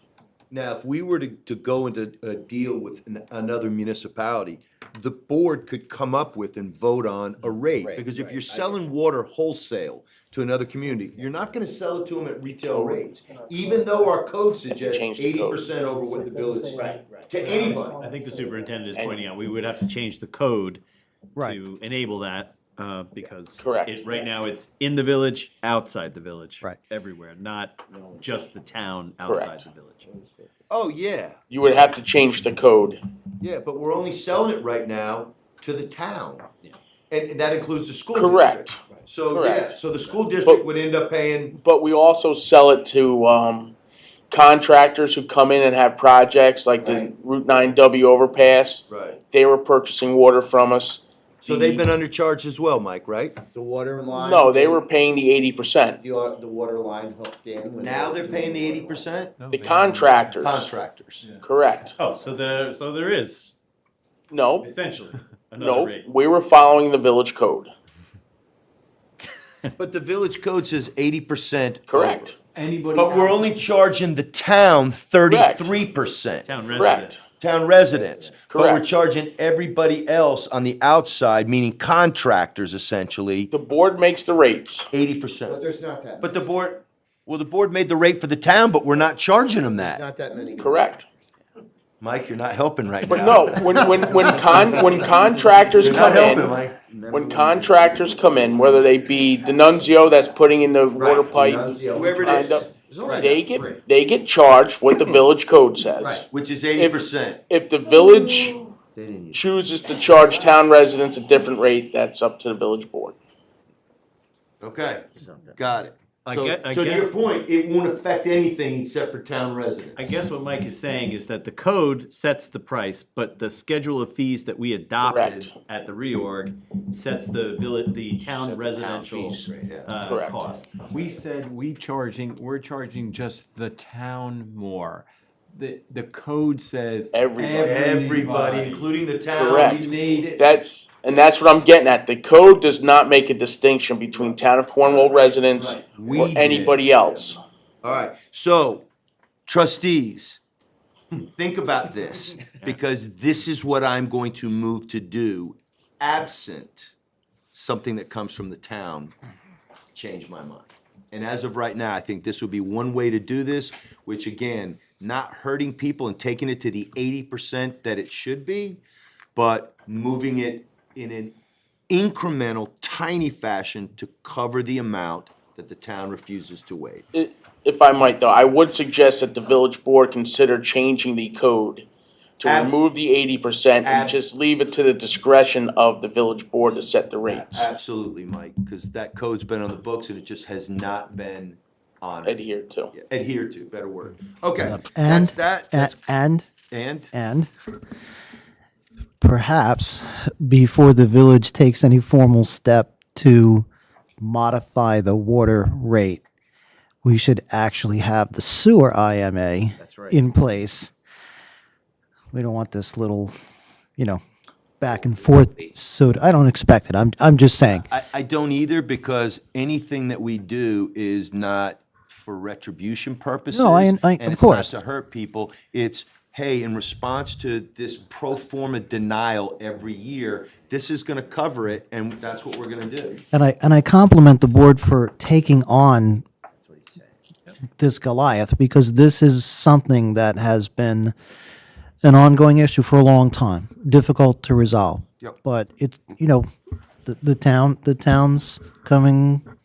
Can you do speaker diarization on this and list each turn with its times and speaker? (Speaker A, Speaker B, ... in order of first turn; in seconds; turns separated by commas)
Speaker A: 0.5-18.0, Speaker B: 7.7-8.8, Speaker C: 12.7-13.2, Speaker C: 14.8-15.7, Speaker D: 16.0-16.9, Speaker E: 16.8-20.8, Speaker B: 16.9-17.2, Speaker D: 17.6-18.5, Speaker C: 18.9-19.2, Speaker E: 21.4-30.1, Speaker C: 23.6-24.0, Speaker C: 29.2-29.6, Speaker A: 30.7-31.4, Speaker C: 31.5-33.0, Speaker A: 33.4-36.5, Speaker A: 37.1-41.6, Speaker C: 38.1-38.8, Speaker C: 39.3-39.8, Speaker C: 41.5-43.8, Speaker C: 44.3-51.8, Speaker B: 46.8-47.1, Speaker A: 48.9-49.2, Speaker A: 51.4-53.4, Speaker B: 53.4-54.8, Speaker C: 54.1-56.0, Speaker B: 56.0-59.1, Speaker A: 57.8-59.4, Speaker F: 59.4-60.1, Speaker C: 59.5-60.7, Speaker A: 60.4-61.3, Speaker C: 61.4-62.0, Speaker E: 62.0-63.5, Speaker C: 64.3-64.7, Speaker E: 64.6-66.1, Speaker C: 65.6-67.7, Speaker A: 69.8-72.3, Speaker C: 71.9-72.4, Speaker F: 72.5-73.5, Speaker A: 73.0-76.5, Speaker C: 75.2-75.8, Speaker E: 76.4-77.4, Speaker C: 76.8-77.2, Speaker A: 77.4-83.5, Speaker B: 78.0-78.5, Speaker C: 78.5-78.8, Speaker C: 83.5-84.9, Speaker A: 84.9-85.6, Speaker B: 85.5-86.3, Speaker A: 86.2-90.0, Speaker B: 89.7-91.0, Speaker C: 90.5-91.1, Speaker A: 92.0-94.1, Speaker C: 93.1-96.5, Speaker B: 94.1-98.8, Speaker A: 95.8-96.8, Speaker C: 97.1-108.6, Speaker A: 101.0-101.3, Speaker B: 101.2-103.8, Speaker A: 101.9-103.4, Speaker A: 106.0-107.4, Speaker B: 109.0-109.4, Speaker C: 109.3-113.2, Speaker A: 114.6-120.0, Speaker B: 115.2-115.6, Speaker E: 116.3-117.2, Speaker E: 120.0-131.1, Speaker C: 125.0-125.5, Speaker A: 129.4-129.9, Speaker C: 130.0-130.5, Speaker F: 130.9-135.1, Speaker F: 135.6-138.6, Speaker C: 137.1-137.8, Speaker A: 137.6-139.8, Speaker E: 138.2-138.8, Speaker C: 139.3-147.4, Speaker F: 139.6-140.5, Speaker E: 144.8-145.8, Speaker F: 145.8-146.8, Speaker A: 147.8-148.9, Speaker A: 149.5-150.4, Speaker A: 151.3-156.9, Speaker A: 157.5-159.1, Speaker A: 159.9-168.8, Speaker A: 169.3-171.4, Speaker A: 171.9-177.1, Speaker C: 177.1-181.9, Speaker C: 182.4-187.7, Speaker A: 182.4-182.8, Speaker A: 183.8-184.2, Speaker A: 187.3-192.4, Speaker C: 192.2-192.9, Speaker A: 192.9-196.1, Speaker D: 194.6-196.5, Speaker A: 196.7-197.1, Speaker D: 197.1-197.5, Speaker D: 199.2-203.7, Speaker D: 204.2-206.2, Speaker D: 207.0-210.9, Speaker B: 209.8-210.2, Speaker D: 212.3-213.3, Speaker D: 214.8-217.9, Speaker A: 217.9-233.2, Speaker D: 223.5-224.7, Speaker D: 233.3-236.2, Speaker D: 237.8-241.1, Speaker D: 242.0-246.5, Speaker D: 247.1-249.4